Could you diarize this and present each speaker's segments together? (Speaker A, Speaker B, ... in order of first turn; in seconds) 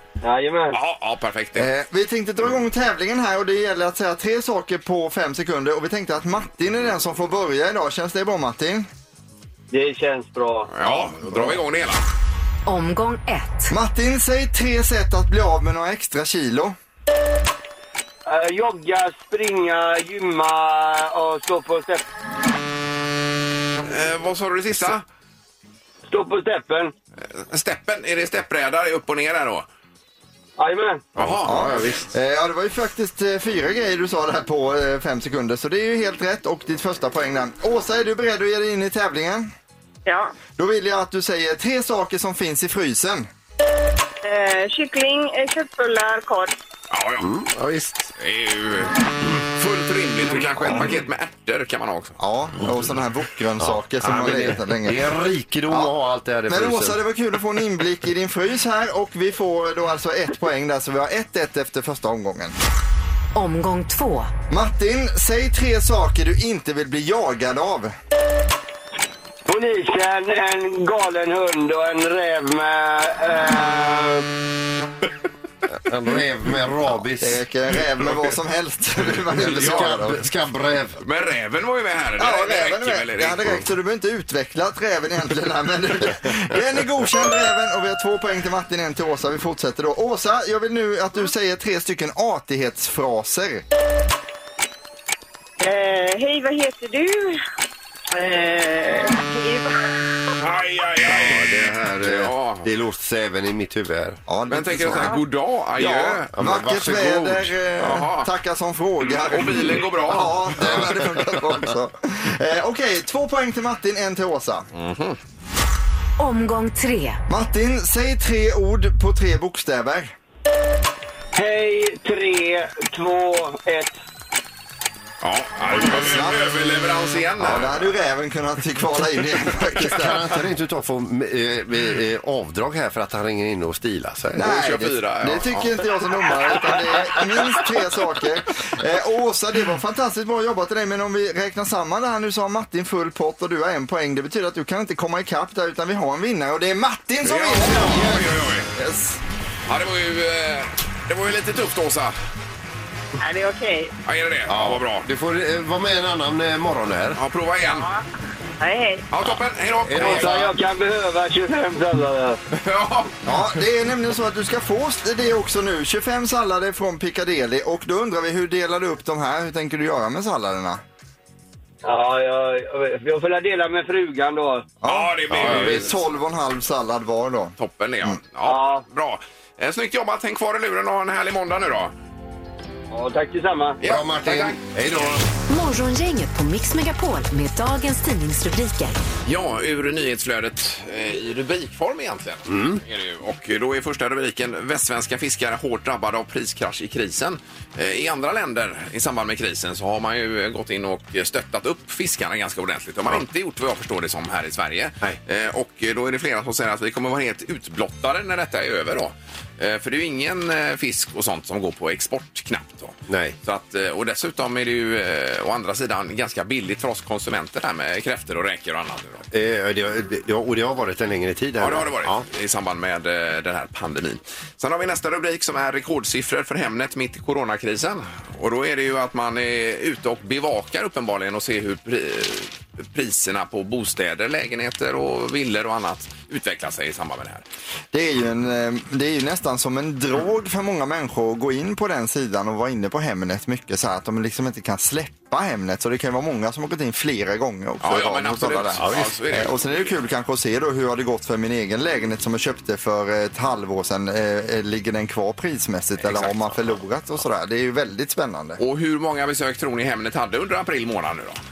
Speaker A: 0.2-0.8, 9.7-10.7, 18.2-22.1, 26.1-26.9, 30.6-31.1, 69.5-74.3, 121.3-123.9, 160.0-162.4, 171.8-174.7, 178.4-178.8, 182.9-183.8
Speaker B: 0.7-1.7, 10.7-12.1, 23.9-25.0, 27.4-29.6, 31.1-31.8, 46.9-47.3, 48.2-52.2, 79.5-79.9, 81.0-83.6, 100.4-102.7, 104.5-106.3, 107.8-108.3, 109.0-110.8, 114.7-115.2, 125.2-127.9, 134.4-135.8, 147.2-148.7, 149.7-152.2, 154.0-155.1, 157.2-157.9, 159.1-160.5, 162.5-163.2, 174.8-175.9, 177.6-181.9, 183.8-185.2, 189.2-219.2, 221.6-237.4, 247.8-249.9, 256.0-256.3, 258.6-261.4
Speaker C: 1.6-8.9, 13.7-16.8, 31.4-39.5, 40.6-43.3, 52.2-55.9, 56.5-62.5, 64.5-67.9, 77.2-80.2, 82.2-93.6, 104.3-105.2, 105.8-114.7, 117.3-120.1, 125.7-126.5, 127.4-130.3, 134.3-149.2, 163.2-170.8, 174.8-178.2, 237.9-258.6
Speaker D: 10.8-11.5, 31.2-32.1, 47.2-48.1, 53.6-57.0, 75.7-77.4, 79.3-81.0, 101.0-104.2, 106.3-107.5, 110.6-111.6, 129.9-134.5, 154.5-157.2, 159.8-160.6, 175.3-175.9, 183.8-185.2, 192.5-192.8, 213.1-213.4, 219.3-222.2, 248.8-249.1
Speaker E: 12.7-13.7, 63.3-64.3, 116.2-117.2, 185.5-189.0
Speaker F: 40.0-40.3, 44.2-46.5, 95.6-97.4, 98.1-100.1, 153.2-153.9, 157.7-158.0, 158.6-159.1